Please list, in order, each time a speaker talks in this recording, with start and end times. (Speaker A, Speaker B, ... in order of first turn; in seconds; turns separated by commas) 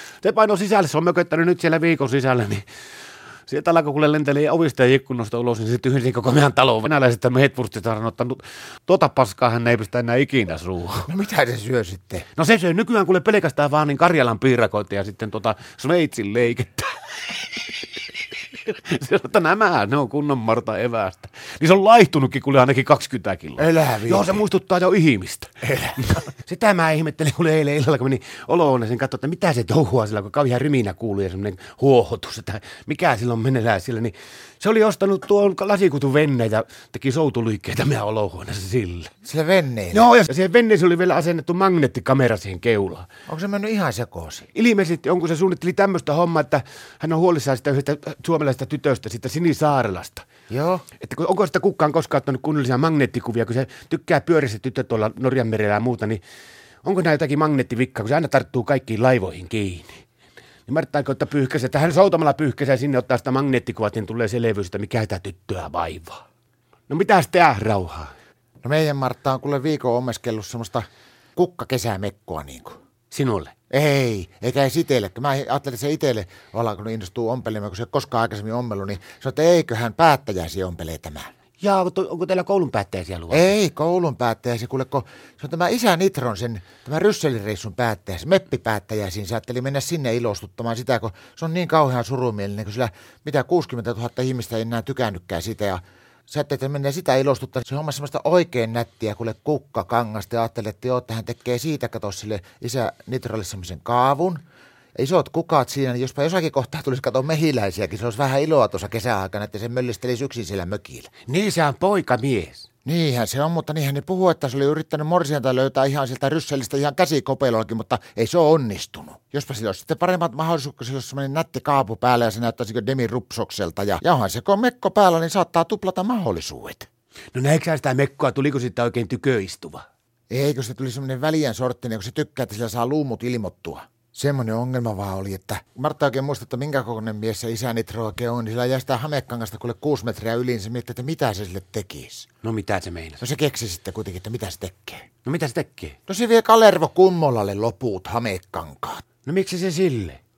Speaker A: 0.2-2.6, Speaker A: 3.5-11.1, Speaker B: 11.1-12.3, Speaker A: 12.4-17.4, Speaker A: 18.5-39.1, Speaker B: 23.6-24.4, Speaker B: 25.7-26.0, Speaker B: 39.2-40.1, Speaker A: 39.9-43.1, Speaker B: 43.3-44.5, Speaker A: 44.5-50.2, Speaker B: 50.5-50.9, Speaker A: 51.0-56.2, Speaker A: 56.8-60.0, Speaker A: 60.7-66.2, Speaker A: 66.9-68.1, Speaker B: 68.6-72.8, Speaker A: 73.1-73.5, Speaker B: 73.7-81.3, Speaker A: 81.6-83.5, Speaker B: 83.3-104.4, Speaker B: 105.0-111.1, Speaker A: 111.3-112.7, Speaker B: 112.8-126.9, Speaker A: 127.3-129.9, Speaker B: 130.3-142.3, Speaker A: 142.4-143.2, Speaker B: 143.2-145.1, Speaker A: 145.2-146.0, Speaker B: 146.1-149.1, Speaker A: 149.3-150.2